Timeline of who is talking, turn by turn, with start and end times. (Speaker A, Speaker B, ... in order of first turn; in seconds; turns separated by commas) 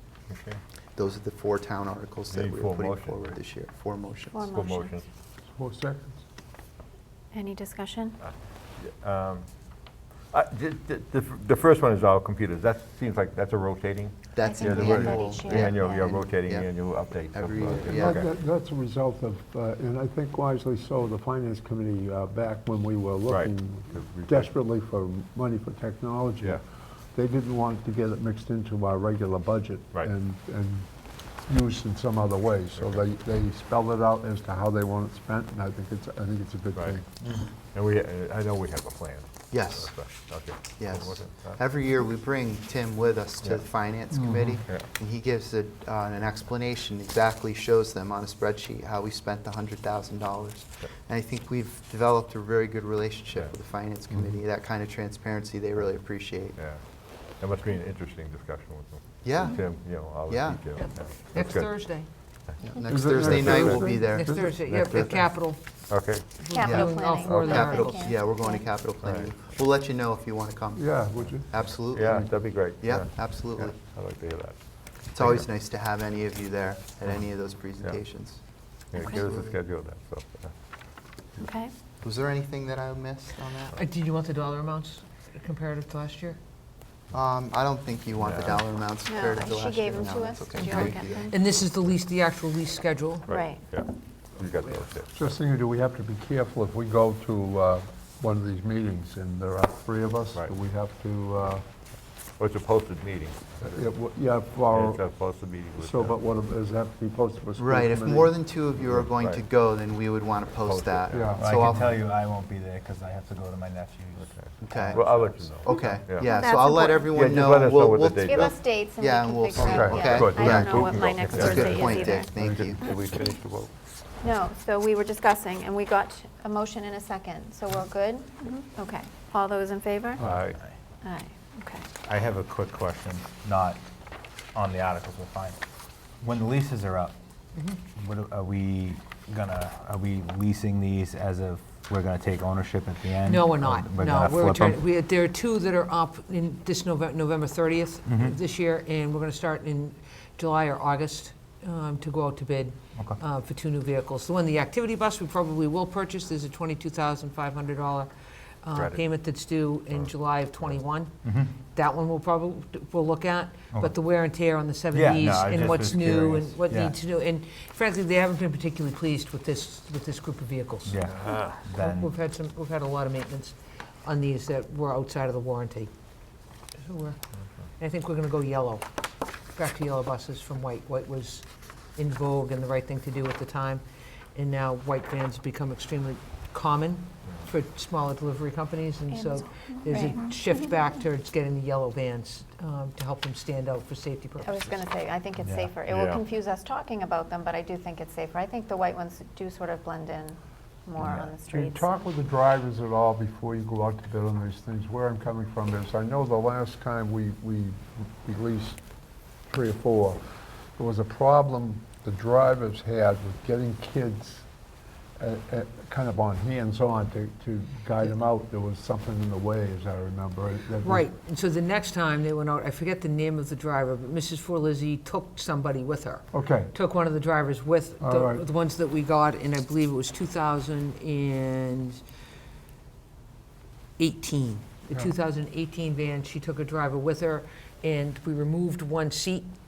Speaker A: 0.3-0.6, Speaker B: 1.0-4.4, Speaker A: 2.3-3.4, Speaker C: 4.3-5.0, Speaker A: 4.5-5.1, Speaker D: 5.5-6.2, Speaker C: 7.3-8.2, Speaker A: 8.2-9.4, Speaker A: 10.3-18.3, Speaker B: 14.3-16.7, Speaker C: 14.4-16.1, Speaker B: 17.3-18.2, Speaker D: 17.9-26.6, Speaker A: 23.3-24.5, Speaker D: 27.1-30.9, Speaker D: 31.4-37.1, Speaker A: 32.8-33.0, Speaker A: 37.7-41.6, Speaker B: 39.5-39.9, Speaker B: 40.8-56.6, Speaker D: 44.1-44.6, Speaker A: 56.5-61.7, Speaker B: 59.2-59.6, Speaker B: 60.3-60.6, Speaker E: 60.8-62.1, Speaker A: 62.5-64.0, Speaker B: 62.6-65.2, Speaker D: 62.8-65.1, Speaker E: 64.0-65.6, Speaker A: 65.9-66.4, Speaker E: 66.4-68.1, Speaker C: 66.5-68.7, Speaker B: 66.6-72.3, Speaker A: 67.3-67.6, Speaker A: 69.0-69.3, Speaker D: 70.7-72.3, Speaker A: 71.9-75.5, Speaker B: 72.8-73.8, Speaker B: 75.1-78.4, Speaker A: 78.9-80.5, Speaker B: 78.9-79.6, Speaker C: 79.0-79.3, Speaker C: 81.4-81.7, Speaker B: 82.0-83.8, Speaker E: 83.7-86.4, Speaker B: 87.1-91.3, Speaker A: 88.2-88.6, Speaker C: 89.1-91.4, Speaker E: 90.6-93.3, Speaker A: 93.2-95.3, Speaker C: 93.3-93.7, Speaker D: 95.1-101.6, Speaker A: 102.4-103.8, Speaker D: 103.7-105.0, Speaker A: 104.7-106.2, Speaker D: 105.8-108.3, Speaker B: 107.6-112.0, Speaker A: 108.8-109.5, Speaker A: 110.6-111.4, Speaker D: 111.1-111.5, Speaker F: 111.3-114.3, Speaker A: 114.2-116.4, Speaker B: 114.6-115.1, Speaker F: 114.9-115.5, Speaker B: 115.6-122.8, Speaker C: 115.6-117.0, Speaker A: 117.0-118.6, Speaker C: 118.2-122.3, Speaker D: 119.6-120.6, Speaker A: 120.0-123.7, Speaker D: 122.4-122.6, Speaker C: 124.2-130.2, Speaker A: 130.2-130.6, Speaker C: 131.0-131.9, Speaker F: 132.1-133.8, Speaker F: 134.5-135.6, Speaker F: 136.2-137.2, Speaker E: 137.5-137.8, Speaker F: 137.9-144.8, Speaker E: 143.2-158.1, Speaker F: 148.1-148.3, Speaker E: 158.6-161.1, Speaker A: 159.9-160.8, Speaker F: 161.2-161.6, Speaker E: 161.7-171.0, Speaker F: 164.9-167.0, Speaker F: 170.8-172.1, Speaker A: 171.1-171.6, Speaker E: 171.5-175.9, Speaker E: 176.8-177.2, Speaker E: 177.8-178.8, Speaker E: 179.5-183.8, Speaker E: 184.3-194.6, Speaker C: 189.1-190.7, Speaker C: 194.4-202.0, Speaker F: 195.4-195.7, Speaker A: 195.8-196.2, Speaker F: 201.0-201.3, Speaker D: 201.5-208.8, Speaker D: 209.5-210.2, Speaker D: 210.8-214.4, Speaker D: 215.2-221.1, Speaker E: 220.8-232.0, Speaker D: 226.3-226.7, Speaker D: 228.0-228.4, Speaker E: 234.0-239.5